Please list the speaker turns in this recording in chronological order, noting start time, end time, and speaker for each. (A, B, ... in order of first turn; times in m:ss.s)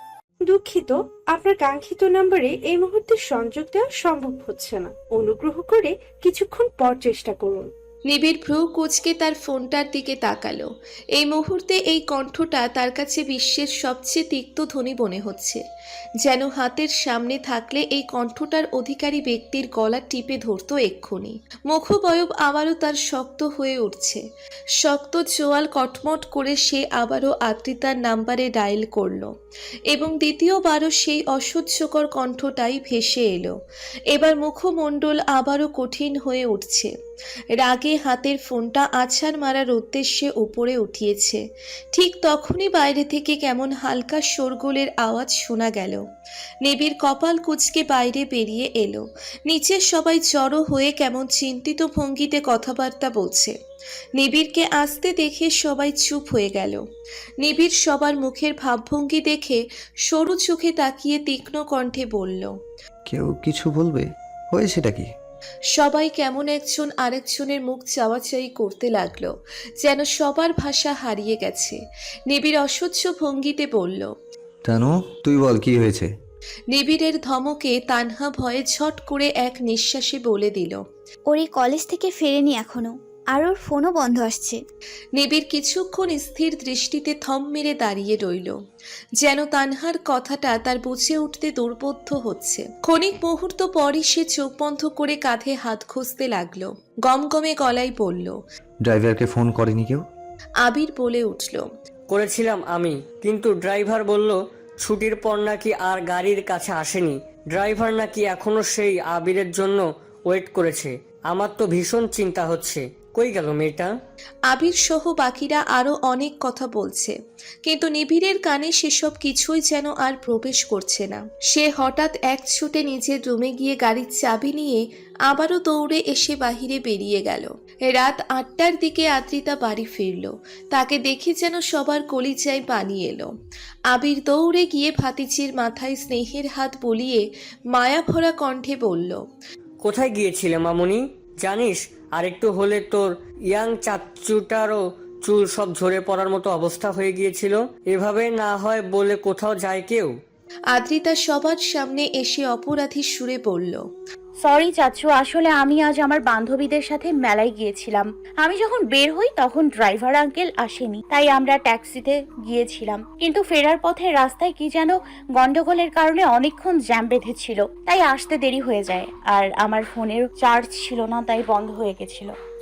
0:00.4-0:07.7 A
0:08.1-0:15.6 B
0:16.2-0:24.2 B
0:24.8-0:29.3 B
0:29.9-0:33.5 B
0:34.1-0:36.9 B
0:37.5-0:41.4 B
0:41.9-0:46.0 B
0:46.6-0:53.5 B
0:54.2-0:56.8 B
0:57.4-1:02.5 B
1:03.1-1:05.1 C
1:05.7-1:14.1 B
1:14.6-1:16.1 C
1:16.7-1:20.8 B
1:21.3-1:24.6 D
1:25.1-1:28.5 B
1:29.2-1:38.4 B
1:38.8-1:40.0 C
1:40.6-1:41.6 B
1:42.1-1:53.9 E
1:54.5-2:13.3 B
2:13.9-2:19.2 B
2:19.8-2:30.1 E
2:30.7-2:33.8 B
2:34.4-2:52.3 F